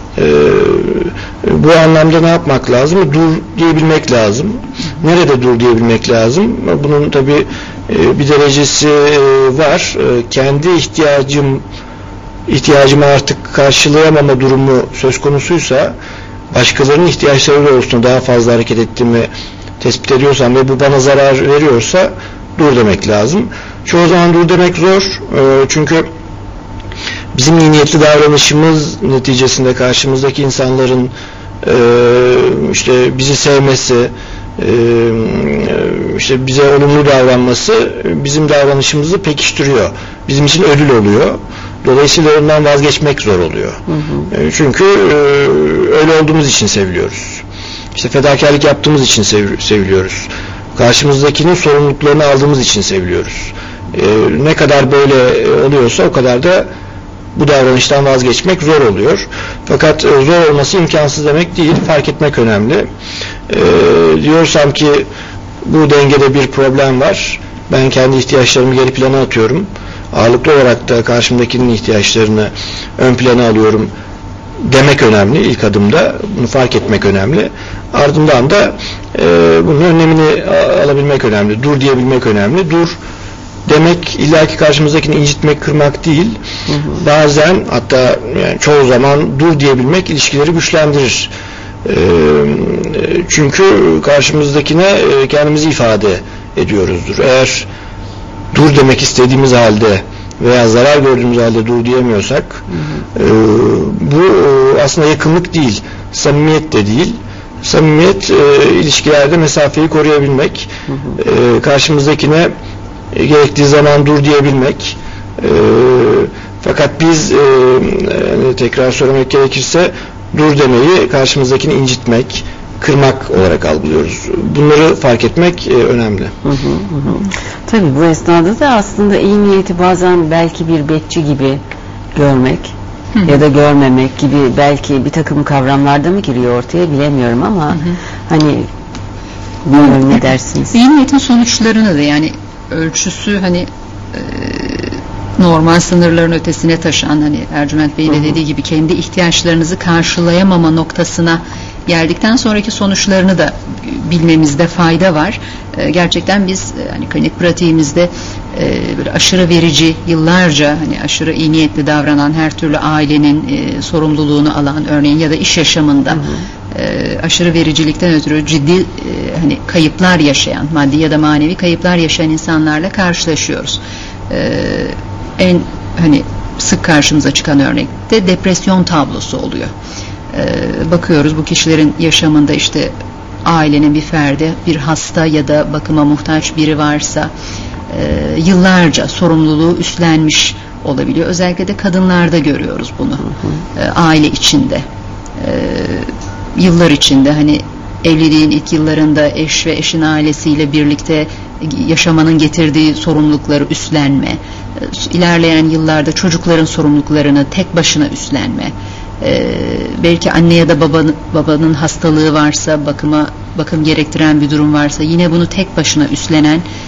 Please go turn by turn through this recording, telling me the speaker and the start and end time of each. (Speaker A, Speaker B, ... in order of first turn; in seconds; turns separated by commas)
Speaker A: 0.1-11.6, Speaker A: 12.5-15.9, Speaker A: 16.5-19.3, Speaker A: 19.8-26.1, Speaker A: 27.3-47.4, Speaker B: 43.9-44.3, Speaker A: 47.9-56.7, Speaker A: 57.3-62.9, Speaker A: 63.5-65.0, Speaker A: 65.6-73.9, Speaker A: 74.6-83.0, Speaker A: 83.7-86.4, Speaker B: 86.7-87.0, Speaker A: 87.0-91.3, Speaker A: 91.8-97.7, Speaker A: 98.5-112.5, Speaker B: 102.7-103.0, Speaker B: 110.9-111.2, Speaker A: 113.1-126.3, Speaker B: 126.4-131.6, Speaker B: 132.1-132.7, Speaker B: 133.2-138.7, Speaker B: 139.6-140.7, Speaker C: 140.7-179.7, Speaker B: 166.1-166.4, Speaker C: 180.3-187.3, Speaker C: 187.9-194.8, Speaker B: 193.3-193.6, Speaker C: 195.4-216.6